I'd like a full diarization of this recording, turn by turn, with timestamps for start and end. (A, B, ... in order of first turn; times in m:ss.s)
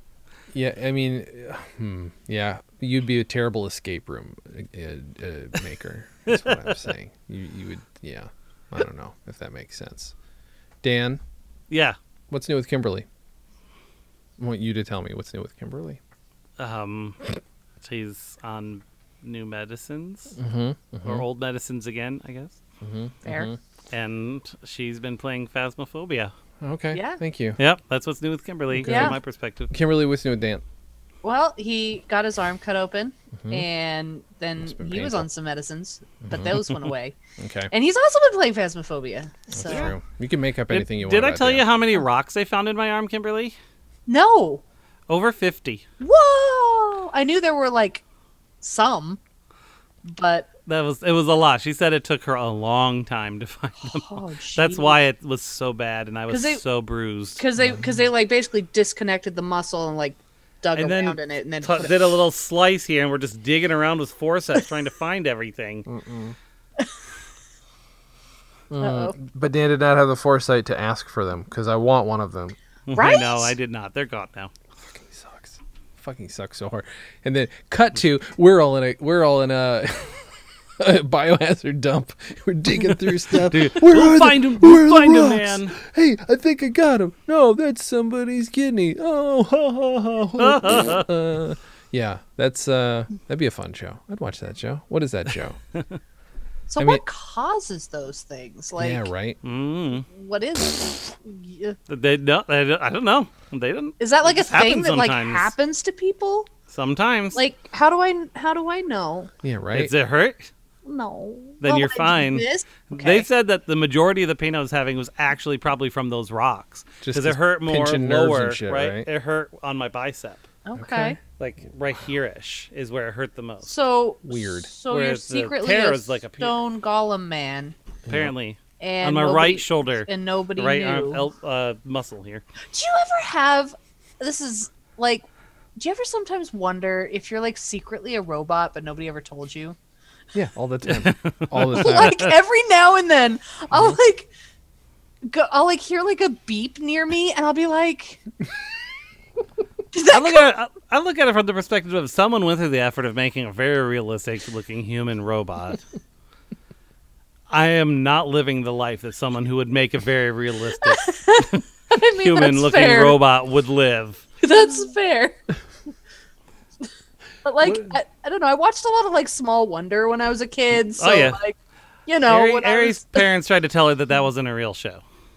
0:00.5-0:10.1 A
0:06.3-0:06.5 B
0:10.8-0:11.2 A
0:11.7-0:12.0 B
0:12.3-0:13.1 A
0:14.4-0:16.0 A
0:16.6-0:17.3 B
0:17.8-0:20.4 B
0:20.4-0:21.2 A
0:21.0-0:22.6 B
0:22.8-0:23.6 A
0:23.9-0:26.3 B
0:26.6-0:27.6 A
0:26.9-0:27.2 C
0:27.6-0:29.7 B
0:28.7-0:29.2 A
0:28.8-0:29.2 C
0:29.7-0:30.6 A
0:31.2-0:37.2 C
0:33.4-0:33.7 A
0:34.6-0:35.3 A
0:36.2-0:36.6 A
0:37.4-0:37.7 A
0:37.7-0:39.9 C
0:39.5-0:41.7 A
0:39.7-0:39.9 B
0:40.7-0:43.6 B
0:44.1-0:44.6 C
0:45.1-0:45.8 B
0:46.0-0:48.0 C
0:48.6-0:49.2 C
0:50.1-0:50.5 C
0:50.7-0:57.4 B
0:53.9-0:55.0 C
0:56.3-0:56.6 C
0:57.4-1:02.1 C
0:57.6-0:57.9 A
1:00.8-1:05.9 B
1:05.9-1:06.4 A
1:08.7-1:12.6 A
1:08.8-1:09.2 C
1:12.9-1:14.5 B
1:13.0-1:13.6 C
1:14.9-1:35.6 A
1:23.2-1:25.8 B
1:30.4-1:31.0 B
1:36.7-1:39.1 C
1:38.8-1:39.4 A
1:39.4-1:40.1 B
1:40.1-1:41.8 C
1:41.9-1:45.5 B
1:44.0-1:46.5 C
1:46.7-1:47.4 B
1:47.4-1:49.3 C
1:49.4-1:49.9 A
1:49.7-1:50.5 B
1:50.8-1:53.3 C
1:51.6-2:00.5 B
1:57.0-1:59.1 A
2:00.7-2:01.2 C
2:00.8-2:01.2 A
2:01.4-2:03.7 B
2:03.6-2:07.8 C
2:04.2-2:04.7 A
2:04.9-2:06.6 B
2:08.1-2:08.3 A
2:08.1-2:12.4 B
2:08.8-2:11.2 C
2:12.7-2:15.2 C
2:15.8-2:19.8 C
2:20.3-2:22.3 A
2:20.9-2:22.3 B
2:21.7-2:24.3 C
2:25.2-2:28.2 C
2:29.9-2:30.5 C
2:30.1-2:35.8 B
2:37.5-2:41.6 B
2:40.8-2:43.2 C
2:42.2-2:44.3 B
2:44.4-2:45.4 C
2:47.4-2:51.6 C
2:51.0-2:51.4 B
2:52.1-2:53.3 C
2:52.3-2:55.0 B